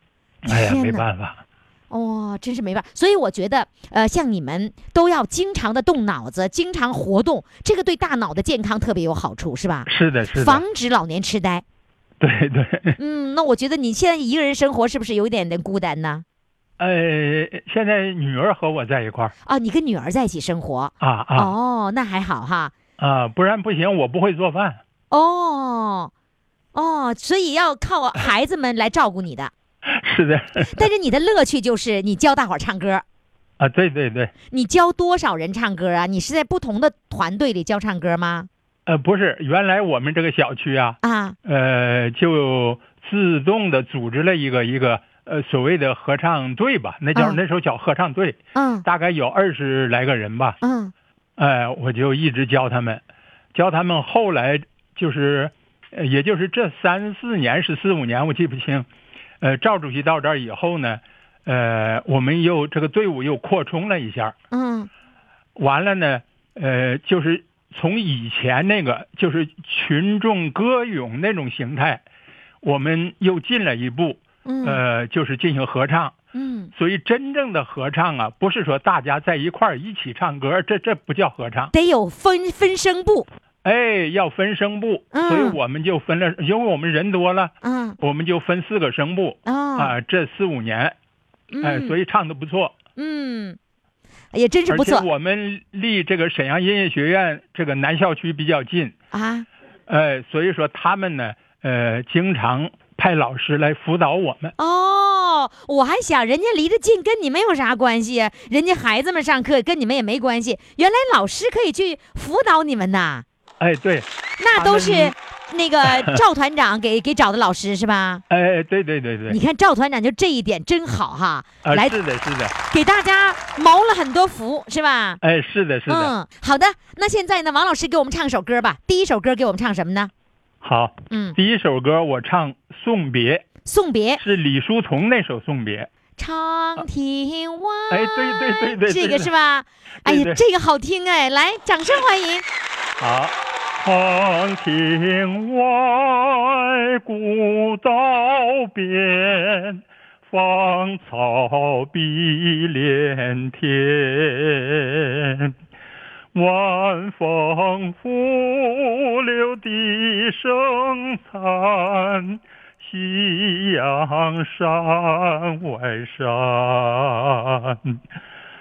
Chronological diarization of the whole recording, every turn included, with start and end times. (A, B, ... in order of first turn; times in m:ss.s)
0:00.4-0:01.4 A
0:00.5-0:01.1 B
0:01.9-0:11.6 B
0:09.9-0:10.6 A
0:12.2-0:13.0 A
0:13.0-0:16.2 B
0:16.8-0:19.3 A
0:19.5-0:22.7 B
0:21.0-0:21.5 A
0:23.0-0:24.8 A
0:25.1-0:26.1 B
0:26.7-0:29.5 B
0:30.0-0:30.8 A
0:30.7-0:33.0 B
0:33.6-0:34.3 A
0:34.5-0:38.5 B
0:38.9-0:50.6 A
0:41.0-0:41.4 B
0:47.2-0:47.4 B
0:48.6-0:48.9 B
0:50.6-0:50.9 B
0:51.4-0:53.0 A
0:53.5-0:58.9 A
0:59.4-1:04.3 A
1:04.5-1:04.9 B
1:05.6-1:12.0 A
1:12.6-1:16.2 A
1:14.5-1:14.8 B
1:16.3-1:16.7 B
1:16.8-1:21.7 A
1:21.7-1:23.3 B
1:23.6-1:31.0 A
1:25.1-1:25.6 B
1:27.6-1:28.0 B
1:29.5-1:29.9 B
1:31.5-1:32.0 B
1:31.6-1:32.8 A
1:33.0-1:33.6 B
1:34.3-1:35.1 B
1:34.7-1:38.9 A
1:39.1-1:39.5 B
1:39.9-1:44.5 A
1:44.6-1:53.2 B
1:53.6-1:55.2 A
1:54.4-1:58.2 B
1:55.9-1:56.2 A
1:58.3-1:59.4 A
1:59.3-2:02.0 B
2:01.6-2:02.5 A
2:02.7-2:05.2 B
2:05.2-2:06.1 A
2:05.9-2:10.1 B
2:10.6-2:13.4 A
2:11.1-2:11.4 B
2:13.6-2:14.2 B
2:14.2-2:15.9 A
2:16.2-2:22.5 B
2:17.9-2:19.3 A
2:20.0-2:20.4 A
2:23.0-2:35.5 A
2:36.3-2:48.0 A